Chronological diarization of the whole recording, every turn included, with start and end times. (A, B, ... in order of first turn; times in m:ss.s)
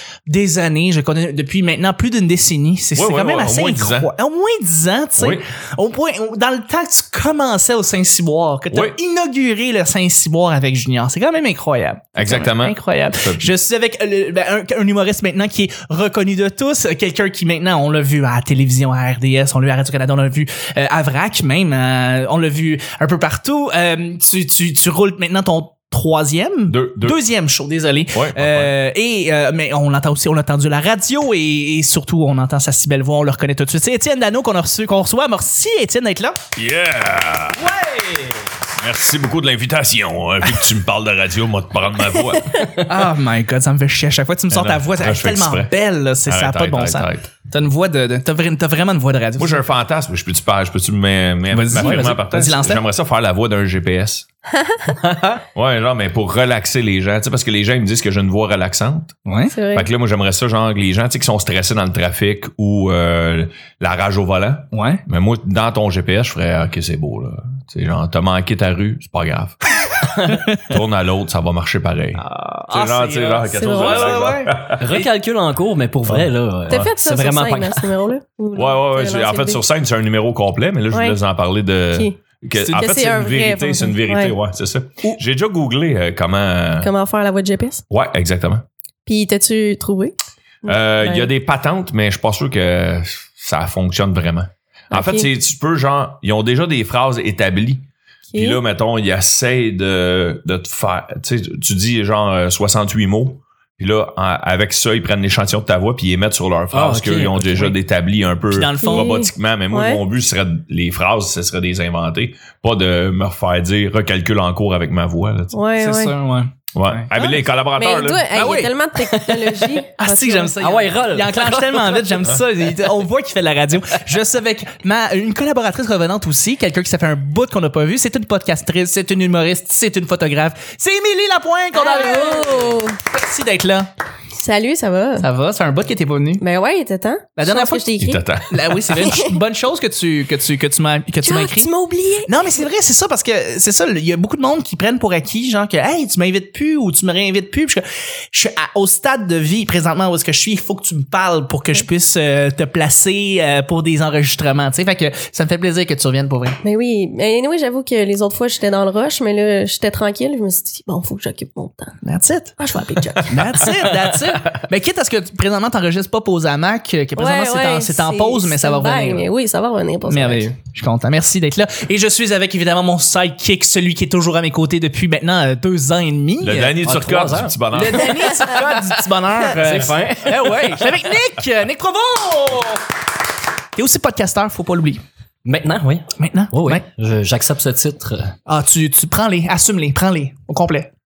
0:00.3-0:36.4 A
0:03.0-0:04.1 B
0:05.2-0:05.5 B
0:08.7-0:09.0 B
0:12.2-0:13.5 B
0:26.7-0:27.2 B
0:28.1-0:28.7 B
0:36.6-0:37.7 B
0:37.7-0:38.4 C
0:38.8-0:42.6 B
0:42.9-0:49.6 A
0:44.5-0:45.7 B
0:46.2-0:47.3 B
0:49.4-0:54.3 B
0:51.5-0:52.8 A
0:51.8-0:52.2 C
0:55.0-0:55.4 C
0:55.6-0:59.2 B
0:59.3-0:59.6 A
0:59.5-0:59.9 D
0:59.7-1:09.6 B
1:04.7-1:05.0 A
1:10.3-1:10.6 A
1:10.6-1:14.8 B
1:12.2-1:15.1 A
1:13.5-1:14.2 D
1:14.8-1:17.9 C
1:16.1-1:16.9 B
1:16.7-1:19.6 D
1:18.6-1:26.9 B
1:20.9-1:21.2 D
1:21.9-1:24.4 D
1:26.8-1:27.8 D
1:27.9-1:28.7 B
1:29.1-1:31.3 D
1:30.6-1:55.6 B
1:34.9-1:35.3 D
1:38.3-1:38.6 D
1:46.7-1:47.8 C
1:48.5-1:49.1 A
1:48.8-1:50.0 D
1:55.5-1:56.1 D
1:55.8-1:57.1 A
1:56.7-1:58.3 B
1:57.2-2:00.6 D
1:58.3-2:13.9 A
2:00.6-2:02.1 C
2:11.7-2:13.0 D
2:14.3-2:15.3 D
2:15.2-2:16.4 A
2:16.4-2:18.2 D
2:17.4-2:17.9 A
2:18.0-2:18.8 B
2:18.5-2:21.7 A
2:18.8-2:19.4 D
2:21.2-2:22.6 D
2:22.3-2:36.6 A
2:36.6-2:42.0 D
2:42.0-2:42.6 A
2:42.6-2:43.5 D
2:43.2-2:49.3 A
2:47.2-2:50.5 D
2:50.1-2:56.8 A
2:56.4-2:58.3 B
2:56.8-2:57.6 C
2:57.7-3:02.8 A
2:58.2-2:58.7 D
2:59.5-3:00.9 C
3:03.8-3:05.0 A
3:05.4-3:08.4 C
3:06.2-3:06.8 A
3:08.5-3:10.9 A